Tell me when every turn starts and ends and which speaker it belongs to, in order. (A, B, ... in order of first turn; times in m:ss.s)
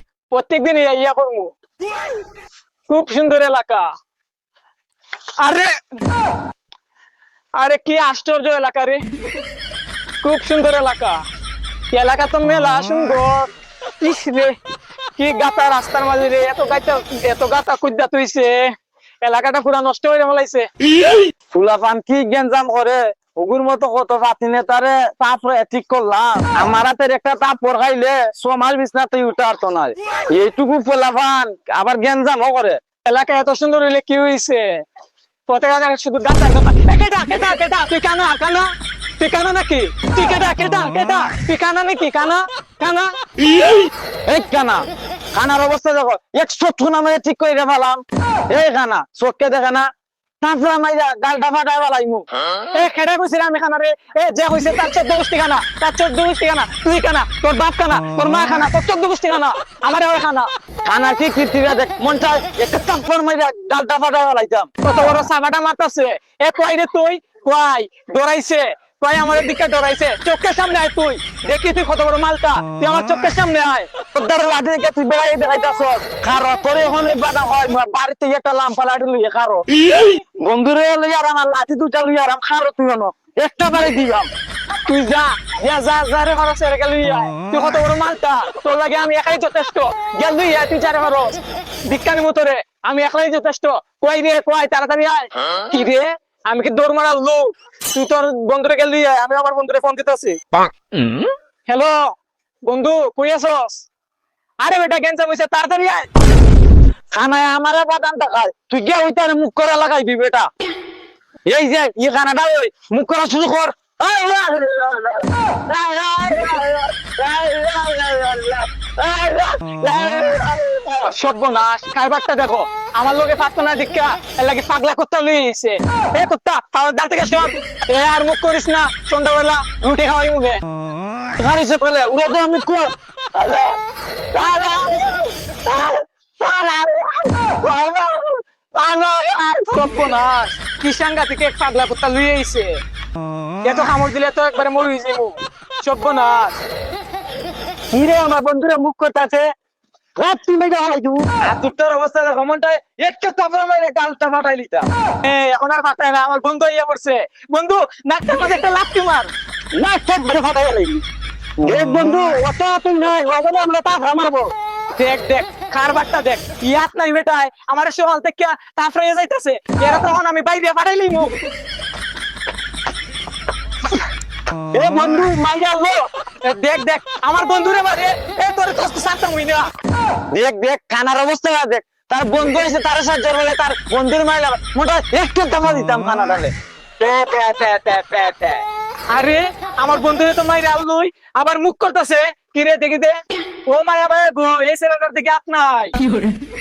0:00.3-0:01.5 A
0:02.9-0:03.9 A
0:05.4-0:05.7 A
0:07.6-0:09.0 A
0:10.2-0:11.2 A
0:11.9-0:13.5 A
0:14.0-0:14.6 A
0:15.2-0:20.7 A
0:21.5-0:32.8 B
0:33.0-0:34.8 A
0:35.5-0:43.1 A
0:44.2-0:49.9 B
0:50.4-0:52.3 B
0:52.6-1:00.5 A
1:00.8-1:04.7 B
1:04.8-1:13.9 A
1:14.1-1:19.7 B
1:20.4-1:24.3 B
1:24.9-1:40.4 A
1:40.9-1:42.1 A
1:42.6-1:43.9 A
1:44.6-1:46.1 A
1:47.1-1:50.5 B
1:51.5-2:01.1 B
2:01.0-2:10.6 A
2:11.4-2:13.8 B
2:14.3-2:19.8 B
2:19.7-2:22.8 A
2:23.6-2:26.6 A
2:27.9-2:29.5 B
2:30.2-2:34.9 B
2:35.2-2:39.3 A
2:39.8-2:41.0 B
2:41.6-2:44.5 B
2:45.0-2:51.4 A
2:54.7-2:56.1 B
2:56.4-2:59.7 A
3:00.3-3:06.5 B
3:07.0-3:08.1 A
3:07.9-3:08.6 B
3:09.1-3:16.0 A